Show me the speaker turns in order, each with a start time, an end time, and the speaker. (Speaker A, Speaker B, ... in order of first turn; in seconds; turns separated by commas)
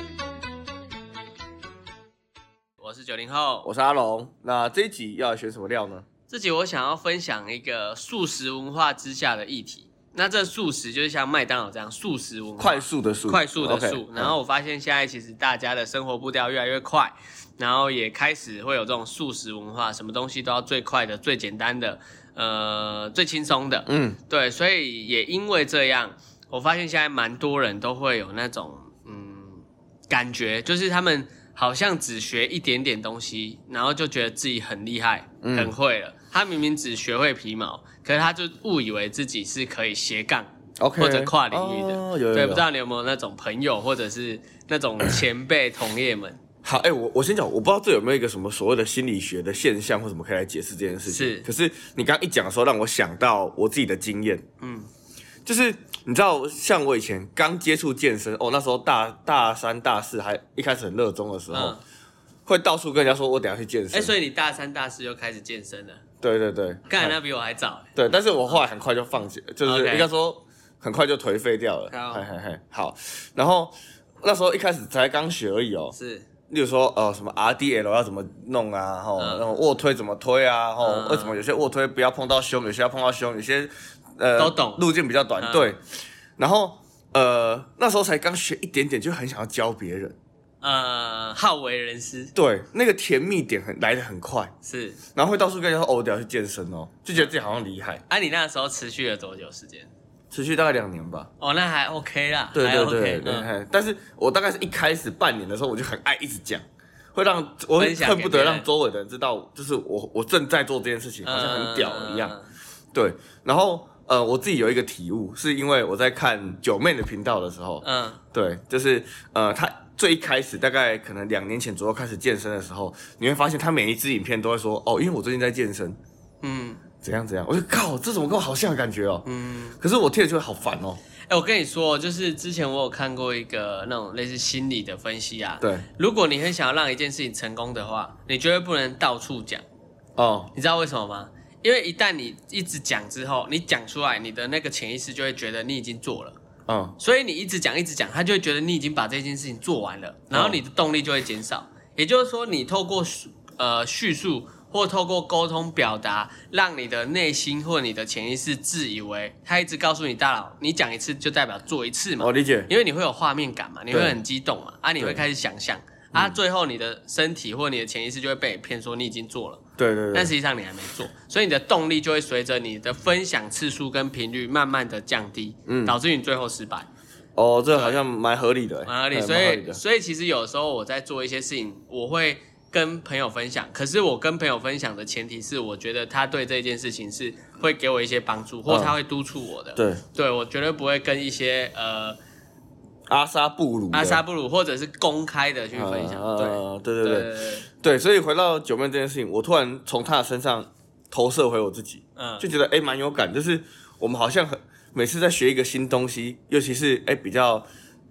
Speaker A: 2.8-3.7, Speaker B: 3.6-6.0, Speaker A: 6.3-46.4, Speaker B: 12.6-14.3, Speaker B: 23.9-24.2, Speaker B: 35.4-35.7, Speaker B: 40.8-42.6, Speaker B: 46.6-54.4, Speaker A: 51.1-51.5, Speaker A: 54.6-54.9, Speaker B: 55.5-61.8, Speaker A: 61.5-61.8, Speaker B: 62.5-64.1, Speaker A: 63.9-66.0, Speaker B: 66.2-67.2, Speaker A: 66.9-67.9, Speaker B: 67.9-75.9, Speaker A: 69.6-70.1, Speaker A: 71.9-72.2, Speaker A: 75.9-76.3, Speaker B: 76.5-85.8, Speaker A: 79.2-79.5, Speaker A: 80.8-81.4, Speaker A: 84.4-84.8, Speaker A: 85.4-85.7, Speaker B: 86.4-90.2, Speaker A: 90.6-92.3, Speaker B: 92.3-94.5, Speaker A: 94.6-95.0, Speaker B: 95.1-98.0, Speaker A: 98.1-99.9, Speaker B: 100.3-101.3, Speaker A: 101.4-103.5, Speaker B: 102.5-112.3, Speaker A: 107.8-108.7, Speaker A: 111.2-112.5, Speaker B: 112.9-126.0, Speaker A: 117.8-118.2, Speaker A: 126.4-126.8, Speaker B: 127.0-129.2, Speaker A: 129.2-129.8, Speaker B: 129.8-131.0, Speaker A: 131.3-139.6, Speaker B: 135.6-135.9, Speaker B: 140.2-140.5, Speaker A: 140.5-146.3, Speaker B: 146.7-146.9, Speaker A: 147.0-169.6, Speaker B: 150.3-150.6, Speaker B: 162.2-162.7, Speaker B: 163.9-164.2, Speaker B: 169.8-170.3, Speaker A: 170.1-176.9, Speaker B: 175.7-176.0, Speaker B: 177.3-179.8, Speaker A: 177.7-178.0, Speaker A: 178.8-192.2, Speaker B: 188.7-188.9, Speaker B: 189.8-190.0, Speaker B: 193.1-194.2, Speaker A: 193.9-197.7, Speaker B: 195.7-207.7, Speaker A: 202.2-202.4